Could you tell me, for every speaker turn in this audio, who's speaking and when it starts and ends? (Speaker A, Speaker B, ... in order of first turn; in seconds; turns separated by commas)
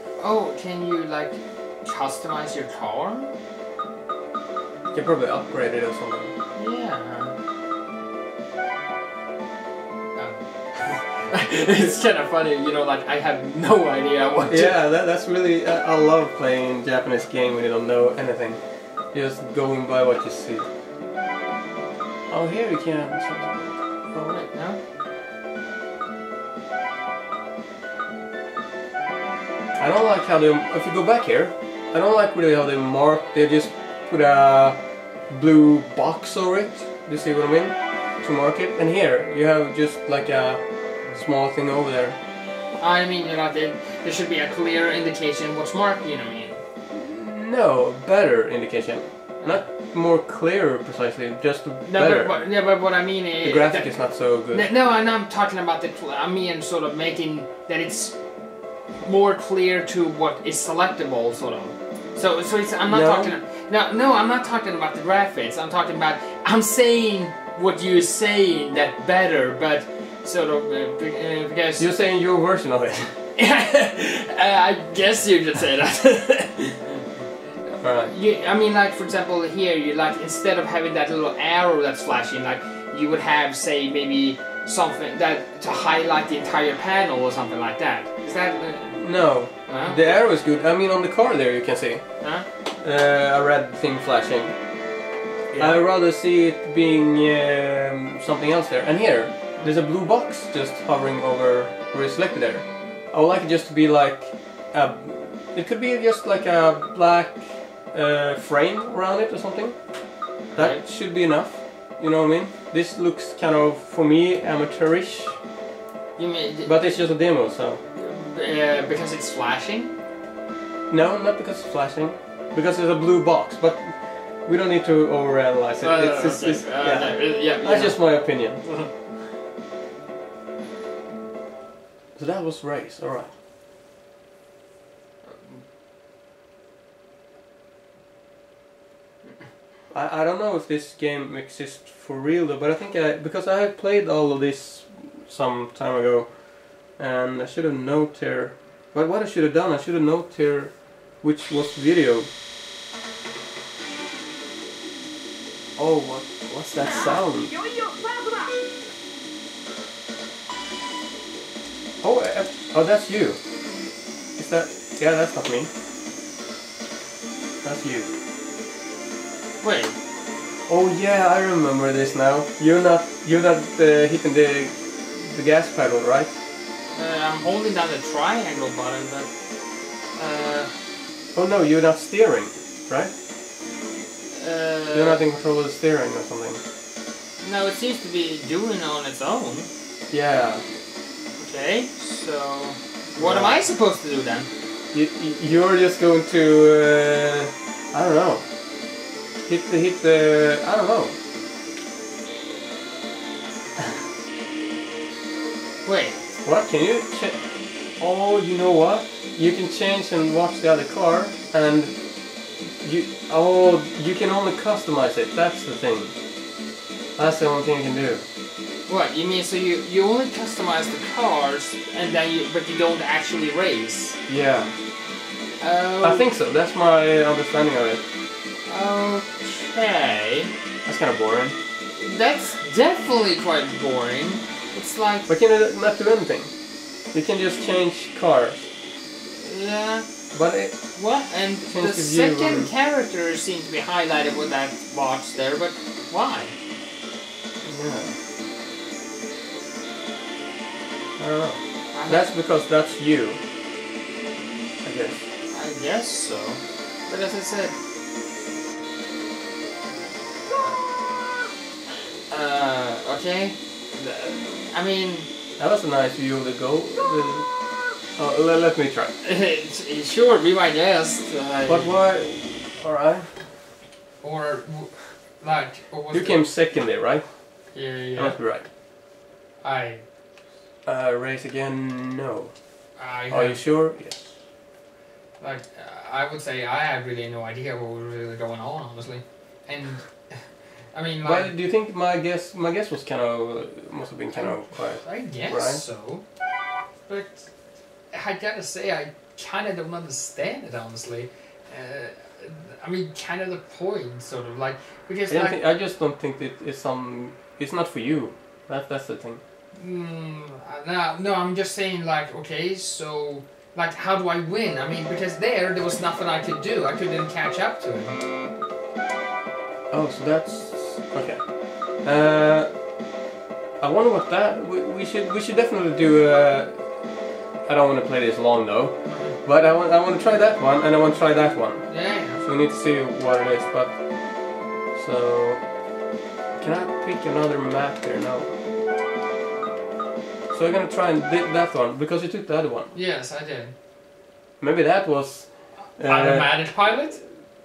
Speaker A: 0.2-3.4, Speaker B: 4.9-6.3, Speaker A: 6.5-7.4, Speaker A: 10.2-14.8, Speaker B: 14.5-20.7, Speaker B: 22.3-24.5, Speaker A: 24.3-24.8, Speaker B: 29.8-42.2, Speaker A: 42.8-46.6, Speaker B: 46.9-52.4, Speaker A: 51.8-58.2, Speaker B: 53.4-54.7, Speaker A: 59.0-71.9, Speaker B: 62.9-63.3, Speaker B: 71.8-73.2, Speaker A: 73.4-77.1, Speaker A: 77.7-89.1, Speaker B: 77.8-78.1, Speaker B: 88.9-94.5, Speaker A: 89.7-90.2, Speaker A: 92.2-92.5, Speaker A: 95.5-95.8, Speaker B: 95.6-109.8, Speaker A: 110.5-110.8, Speaker B: 110.5-115.4, Speaker A: 116.2-116.7, Speaker B: 116.7-117.8, Speaker A: 118.0-119.9, Speaker B: 120.9-128.6, Speaker A: 125.8-128.9, Speaker B: 132.2-133.3, Speaker A: 135.3-135.6, Speaker B: 139.9-152.3, Speaker B: 155.8-157.6, Speaker B: 162.0-163.4, Speaker B: 164.4-165.7, Speaker B: 167.6-168.1, Speaker A: 169.6-170.0, Speaker B: 170.7-176.3, Speaker A: 176.9-179.3, Speaker A: 180.2-180.7, Speaker B: 181.3-183.1, Speaker A: 184.3-185.2, Speaker B: 184.9-186.6, Speaker A: 187.4-189.7, Speaker B: 190.1-190.6, Speaker A: 191.4-194.5, Speaker B: 193.2-193.6, Speaker B: 194.9-198.4, Speaker B: 199.5-201.2, Speaker A: 205.8-206.2, Speaker B: 206.4-207.4, Speaker B: 208.0-212.0, Speaker B: 212.7-216.2, Speaker B: 217.2-218.2, Speaker A: 218.9-224.2, Speaker B: 224.3-224.7, Speaker A: 225.6-226.3, Speaker B: 226.0-228.0, Speaker A: 228.7-230.5, Speaker B: 230.9-231.6, Speaker A: 232.0-235.3, Speaker B: 235.3-236.5, Speaker B: 237.1-238.7, Speaker A: 239.3-240.1, Speaker B: 240.3-240.8, Speaker A: 240.9-246.6, Speaker B: 241.7-242.7, Speaker B: 247.6-248.2, Speaker B: 251.2-253.4, Speaker A: 251.9-252.3, Speaker B: 254.8-255.3, Speaker A: 255.5-257.8, Speaker A: 262.3-265.3, Speaker B: 265.6-267.5, Speaker B: 268.1-269.1, Speaker A: 269.2-272.0, Speaker B: 271.7-273.3, Speaker A: 274.2-276.4, Speaker B: 276.1-277.3, Speaker A: 277.7-278.4, Speaker B: 278.1-278.7, Speaker A: 279.6-280.0, Speaker B: 280.9-282.5, Speaker A: 283.0-283.6, Speaker B: 283.3-284.3, Speaker A: 285.4-291.5, Speaker B: 291.2-295.8, Speaker A: 294.3-296.2, Speaker A: 297.1-297.5, Speaker A: 298.1-305.6, Speaker B: 305.3-309.4, Speaker A: 309.8-318.1, Speaker B: 319.9-322.7, Speaker B: 323.8-326.8, Speaker B: 327.6-334.0, Speaker A: 329.1-329.4, Speaker A: 331.9-332.4, Speaker B: 334.9-335.7, Speaker B: 336.6-338.5, Speaker B: 340.5-342.9, Speaker A: 342.9-343.8, Speaker B: 344.6-346.6, Speaker A: 346.0-347.2